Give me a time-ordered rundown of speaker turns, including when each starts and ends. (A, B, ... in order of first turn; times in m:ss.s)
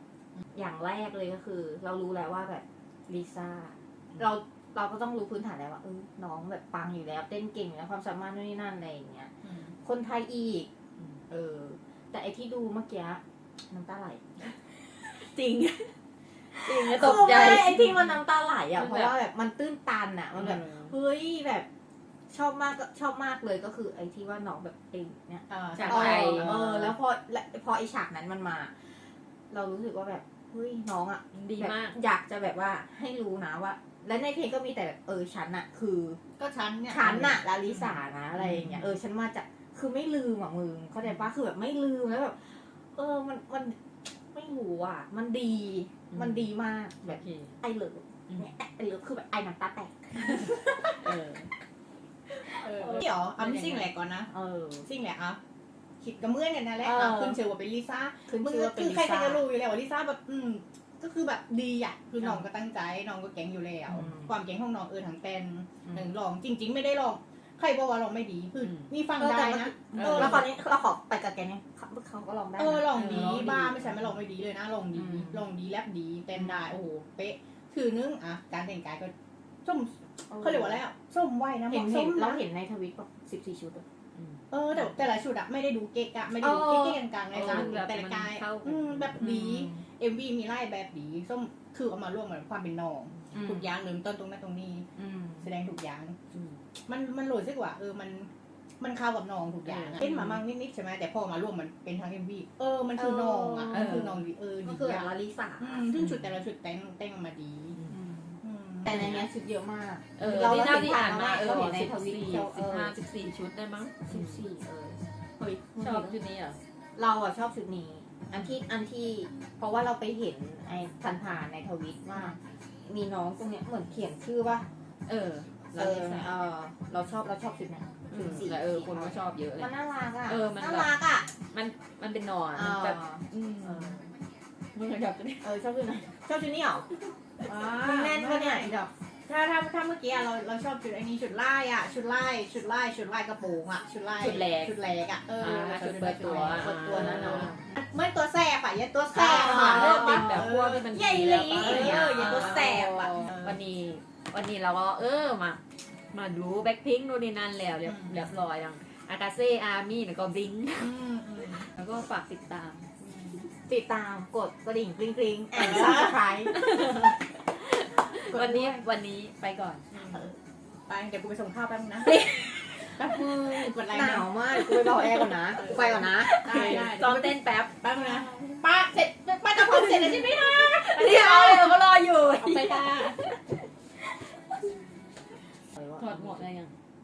0:00.5-0:09.3 A
0:09.4-0:09.7 B
0:09.8-0:10.7 A
0:11.3-0:14.6 A
0:15.0-0:15.9 C
0:16.5-0:21.7 A
0:16.5-0:18.1 C
0:18.7-0:19.1 C
0:20.4-0:20.9 C
0:22.3-0:36.2 A
0:25.5-0:26.9 B
0:25.8-0:26.5 C
0:31.3-0:32.0 C
0:36.4-0:37.4 B
0:36.9-0:51.1 A
0:38.4-0:38.9 C
0:46.1-0:46.4 C
0:47.0-0:47.6 C
0:51.0-0:51.5 C
0:52.4-0:53.0 A
0:52.6-0:54.3 B
0:53.4-0:53.9 C
0:54.3-0:54.9 A
0:54.8-0:55.4 B
0:56.0-1:10.5 B
0:56.8-0:57.4 A
0:58.3-0:59.4 A
1:03.9-1:04.3 A
1:09.1-1:13.5 A
1:09.9-1:10.5 C
1:12.6-1:19.1 B
1:12.9-1:13.8 C
1:14.9-1:15.4 A
1:19.6-1:22.4 B
1:20.3-1:20.8 A
1:21.7-1:23.8 A
1:24.5-1:34.9 B
1:26.4-1:29.1 C
1:29.2-1:29.8 A
1:33.3-1:33.7 A
1:35.0-1:35.4 A
1:35.4-1:36.2 B
1:36.3-1:36.6 C
1:36.8-1:38.3 B
1:38.8-1:47.8 B
1:39.6-1:40.0 C
1:40.0-1:40.3 A
1:42.9-1:44.1 A
1:43.7-1:44.1 C
1:44.6-1:45.9 A
1:47.9-1:53.0 A
1:48.4-1:49.2 B
1:50.2-1:54.4 C
1:54.1-1:56.1 A
1:55.8-1:56.6 C
1:57.0-2:04.6 A
2:05.1-2:06.3 C
2:05.8-2:11.3 A
2:08.1-2:09.7 C
2:10.2-2:10.9 C
2:11.5-2:14.0 C
2:12.5-2:14.1 A
2:14.7-2:15.4 C
2:15.4-2:16.9 A
2:17.4-2:33.5 B
2:17.7-2:18.8 A
2:24.2-2:24.8 C
2:25.4-2:27.6 C
2:26.2-2:27.7 A
2:29.1-2:30.5 A
2:29.1-2:35.6 C
2:31.6-2:32.5 A
2:36.1-2:41.0 C
2:40.8-2:41.7 B
2:41.5-2:42.8 C
2:43.0-2:43.5 B
2:43.6-2:46.5 A
2:45.5-2:46.5 B
2:46.4-2:49.8 C
2:48.2-2:48.8 B
2:49.9-2:50.3 B
2:50.9-2:54.4 B
2:52.0-2:53.6 C
2:53.9-2:56.7 A
2:54.7-2:55.3 C
2:55.6-3:01.8 B
2:56.2-2:58.6 C
2:59.5-3:03.4 C
3:02.4-3:03.2 B
3:05.7-3:06.4 A
3:06.0-3:06.7 C